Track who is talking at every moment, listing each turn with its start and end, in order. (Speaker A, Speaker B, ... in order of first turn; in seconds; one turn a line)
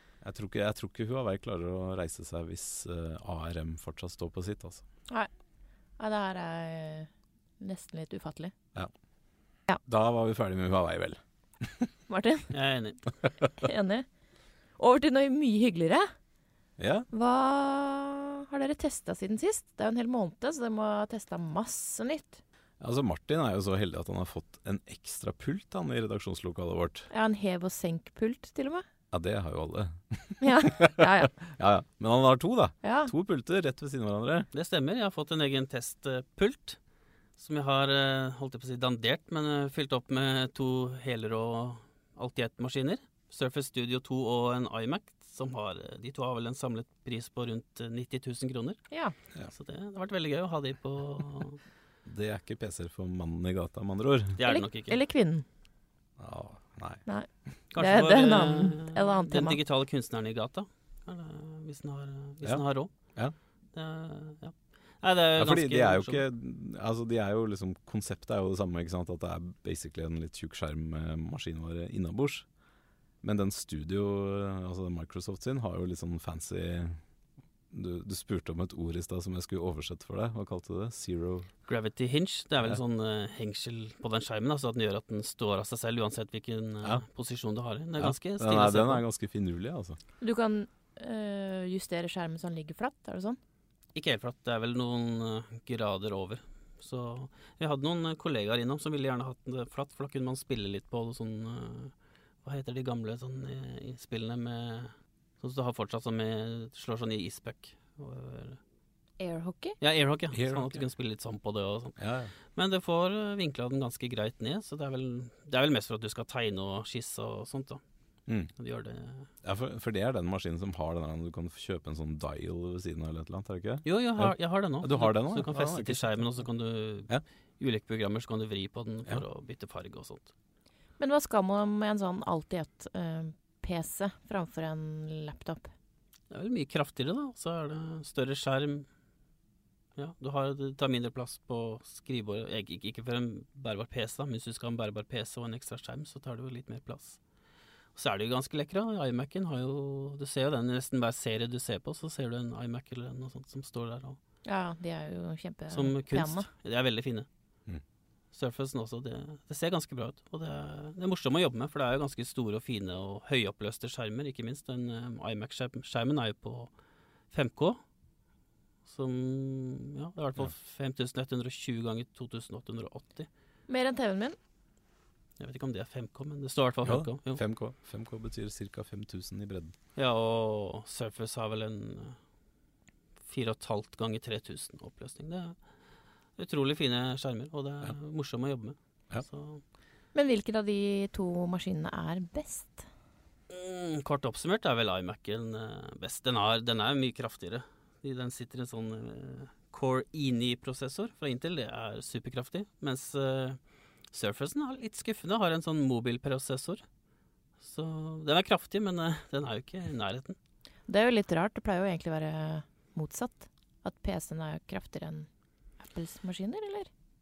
Speaker A: 0.2-4.8
Speaker B: 6.0-8.5
Speaker A: 9.8-11.9
Speaker B: 12.1-12.5
Speaker C: 12.5-13.0
Speaker B: 13.6-14.1
Speaker B: 14.8-16.1
Speaker A: 16.8-17.1
Speaker B: 17.1-22.4
Speaker A: 22.8-27.1
Speaker B: 27.1-28.8
Speaker A: 29.1-34.5
Speaker B: 30.4-31.3
Speaker B: 32.8-33.1
Speaker C: 34.5-36.8
Speaker C: 37.4-51.6
Speaker B: 48.9-49.1
Speaker A: 52.0-54.4
Speaker C: 54.4-55.0
Speaker B: 54.4-55.5
Speaker A: 56.2-57.0
Speaker B: 57.0-59.6
Speaker C: 57.7-66.2
Speaker A: 62.4-63.3
Speaker A: 65.3-72.5
Speaker A: 73.2-77.0
Speaker A: 77.7-81.5
Speaker C: 81.7-89.0
Speaker A: 88.0-90.0
Speaker B: 90.2-93.4
Speaker C: 93.9-108.6
Speaker B: 109.2-109.8
Speaker C: 109.8-117.8
Speaker A: 110.3-110.8
Speaker A: 112.0-112.3
Speaker A: 118.3-118.5
Speaker C: 118.4-119.3
Speaker A: 119.4-126.5
Speaker C: 123.8-130.3
Speaker B: 131.0-135.7
Speaker C: 136.3-138.9
Speaker C: 139.9-147.2
Speaker C: 147.9-154.2
Speaker B: 154.4-156.5
Speaker C: 155.7-157.3
Speaker C: 158.3-166.7
Speaker C: 167.3-167.8
Speaker C: 168.8-173.3
Speaker B: 173.7-174.3
Speaker C: 175.4-177.4
Speaker A: 176.8-179.7
Speaker C: 179.9-182.2
Speaker C: 183.2-185.8
Speaker C: 186.3-189.6
Speaker B: 190.1-192.9
Speaker C: 193.5-206.9
Speaker C: 207.6-210.3
Speaker B: 210.9-215.3
Speaker B: 215.8-216.9